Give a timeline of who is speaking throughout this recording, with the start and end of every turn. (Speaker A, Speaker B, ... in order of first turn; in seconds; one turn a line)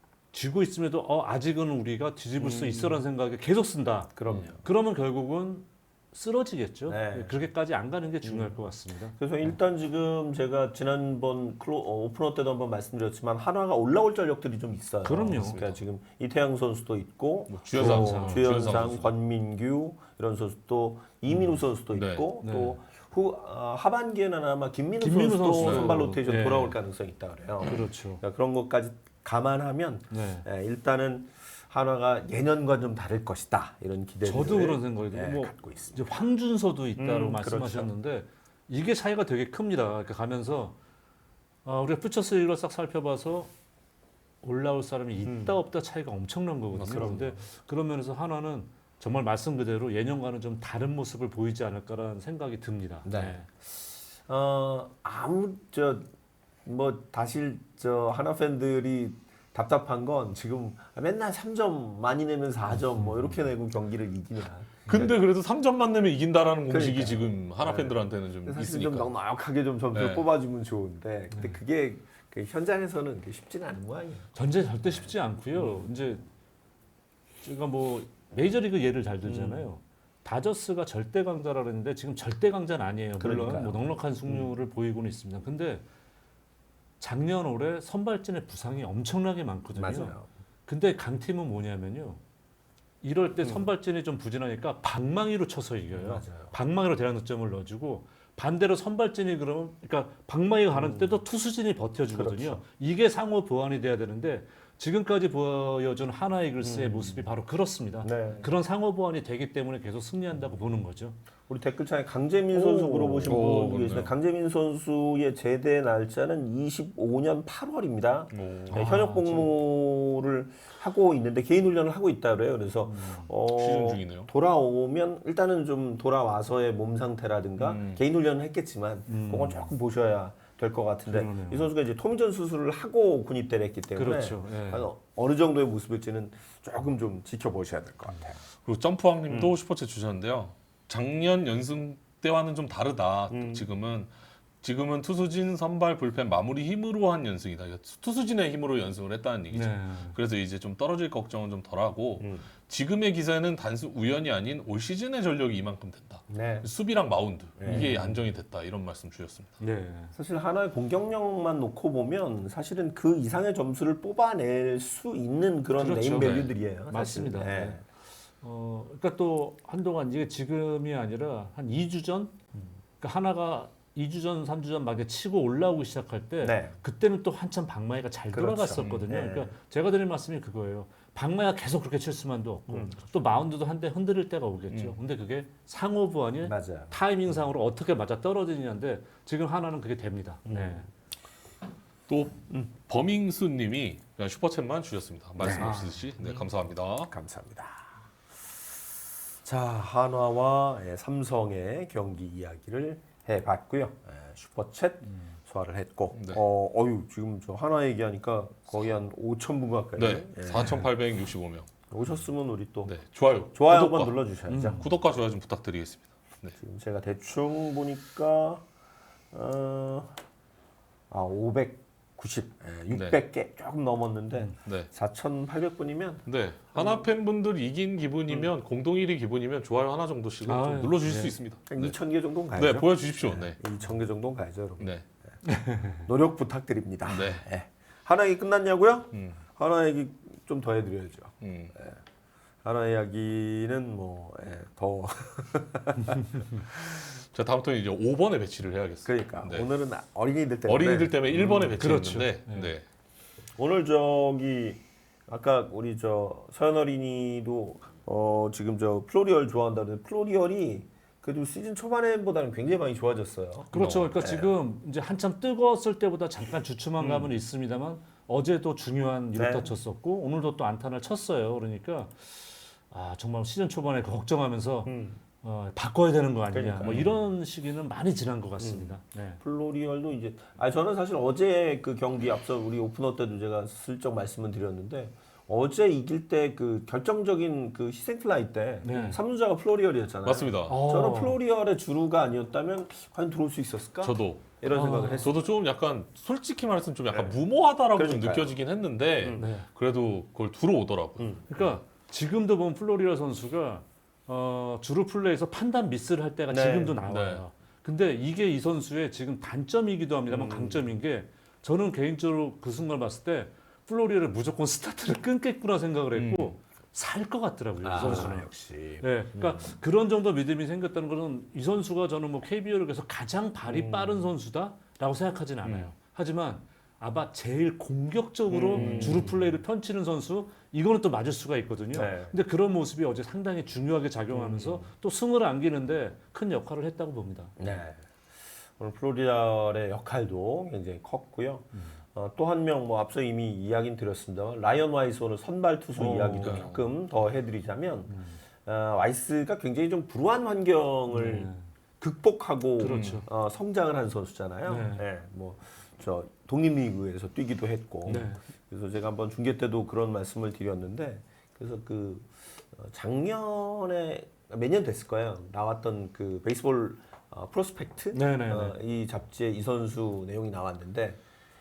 Speaker A: 0.3-9.6
Speaker B: 2.4-3.0
Speaker B: 4.2-4.6
Speaker B: 6.9-7.4
Speaker B: 8.2-8.6
Speaker B: 9.2-36.2
Speaker A: 15.0-15.6
Speaker C: 15.3-15.8
Speaker C: 17.5-19.1
Speaker A: 17.7-18.8
Speaker A: 21.3-21.6
Speaker C: 21.9-22.3
Speaker A: 22.4-22.8
Speaker A: 25.0-26.8
Speaker C: 25.6-26.0
Speaker A: 27.6-28.2
Speaker A: 30.1-30.5
Speaker A: 34.2-40.8
Speaker B: 37.0-37.9
Speaker A: 41.6-43.5
Speaker A: 44.4-53.5
Speaker B: 45.2-45.6
Speaker C: 46.7-47.4
Speaker B: 46.9-47.2
Speaker B: 53.0-56.1
Speaker B: 56.6-65.2
Speaker A: 63.0-63.3
Speaker C: 64.9-69.1
Speaker B: 66.7-74.3
Speaker C: 69.9-70.3
Speaker A: 71.3-71.6
Speaker A: 74.3-76.2
Speaker B: 74.8-75.9
Speaker A: 77.4-85.8
Speaker B: 79.2-79.7
Speaker B: 83.2-84.5
Speaker A: 87.0-92.2
Speaker B: 89.7-90.3
Speaker A: 93.0-111.2
Speaker B: 93.4-93.7
Speaker B: 95.9-96.5
Speaker B: 100.7-101.2
Speaker B: 102.1-102.6
Speaker B: 106.6-107.3
Speaker B: 108.0-108.5
Speaker B: 111.5-138.4
Speaker C: 112.5-114.1
Speaker A: 113.0-113.4
Speaker C: 118.3-118.9
Speaker A: 118.7-119.5
Speaker A: 122.9-123.3
Speaker C: 123.5-124.3
Speaker C: 127.6-128.0
Speaker A: 129.1-129.7
Speaker A: 131.1-131.7
Speaker A: 134.0-134.9
Speaker C: 138.6-159.6
Speaker B: 139.3-139.6
Speaker B: 143.3-143.7
Speaker A: 149.5-150.2
Speaker B: 152.2-152.5
Speaker B: 156.3-156.7
Speaker B: 157.6-158.2
Speaker A: 157.7-158.1
Speaker A: 159.6-160.1
Speaker B: 160.1-167.8
Speaker A: 165.8-167.8
Speaker C: 166.1-166.5
Speaker A: 168.4-172.4
Speaker A: 173.0-190.9
Speaker B: 176.4-176.8
Speaker B: 178.3-179.5
Speaker C: 178.8-179.1
Speaker B: 182.7-183.0
Speaker C: 184.7-185.0
Speaker B: 186.4-187.4
Speaker B: 190.5-190.9
Speaker C: 192.1-197.1
Speaker B: 195.4-196.5
Speaker A: 195.5-196.1
Speaker B: 197.1-198.0
Speaker B: 199.4-210.9
Speaker C: 206.1-206.4
Speaker C: 210.0-211.7
Speaker B: 211.9-212.9
Speaker C: 212.9-214.2
Speaker B: 213.5-214.8
Speaker A: 214.5-215.0
Speaker C: 214.8-216.6
Speaker B: 216.6-218.6
Speaker B: 219.3-220.2
Speaker B: 221.1-227.0
Speaker C: 222.9-223.2
Speaker C: 226.2-232.0
Speaker A: 230.4-231.4
Speaker B: 231.7-234.9
Speaker C: 232.6-233.6
Speaker C: 234.8-235.1
Speaker A: 235.5-236.1
Speaker B: 235.9-242.0
Speaker C: 237.1-237.5
Speaker C: 239.1-239.4
Speaker C: 241.4-241.7
Speaker B: 242.6-247.0
Speaker C: 247.1-249.7
Speaker B: 249.1-251.2
Speaker C: 250.7-252.9
Speaker A: 251.3-252.7
Speaker B: 253.6-264.5
Speaker A: 263.7-274.9
Speaker C: 263.7-264.2
Speaker B: 267.0-267.4
Speaker B: 269.4-269.8
Speaker B: 274.9-275.2
Speaker A: 275.4-279.4
Speaker B: 276.5-277.1
Speaker C: 276.8-277.2
Speaker B: 278.6-295.4
Speaker A: 288.8-289.2
Speaker C: 290.2-290.8
Speaker A: 290.7-291.4
Speaker C: 294.0-294.6
Speaker A: 294.7-295.3
Speaker C: 295.2-301.7
Speaker B: 297.1-297.4
Speaker B: 297.9-298.5
Speaker B: 299.2-299.5
Speaker A: 299.4-299.7
Speaker B: 301.2-301.5
Speaker A: 301.5-337.6
Speaker B: 306.5-307.0
Speaker C: 307.0-307.4
Speaker B: 310.3-310.9
Speaker C: 316.1-316.6
Speaker B: 317.8-319.8
Speaker C: 317.9-318.3
Speaker B: 323.7-324.3
Speaker B: 328.5-329.5
Speaker C: 328.8-329.2
Speaker B: 331.9-332.4
Speaker B: 334.3-334.9
Speaker B: 337.6-338.0
Speaker B: 338.8-351.5
Speaker A: 346.0-346.8
Speaker C: 346.4-346.7
Speaker A: 348.1-348.4
Speaker A: 351.1-351.6
Speaker B: 352.0-371.2
Speaker A: 352.8-353.3
Speaker C: 352.9-353.2
Speaker A: 354.6-355.0
Speaker A: 358.1-358.4
Speaker A: 368.1-368.8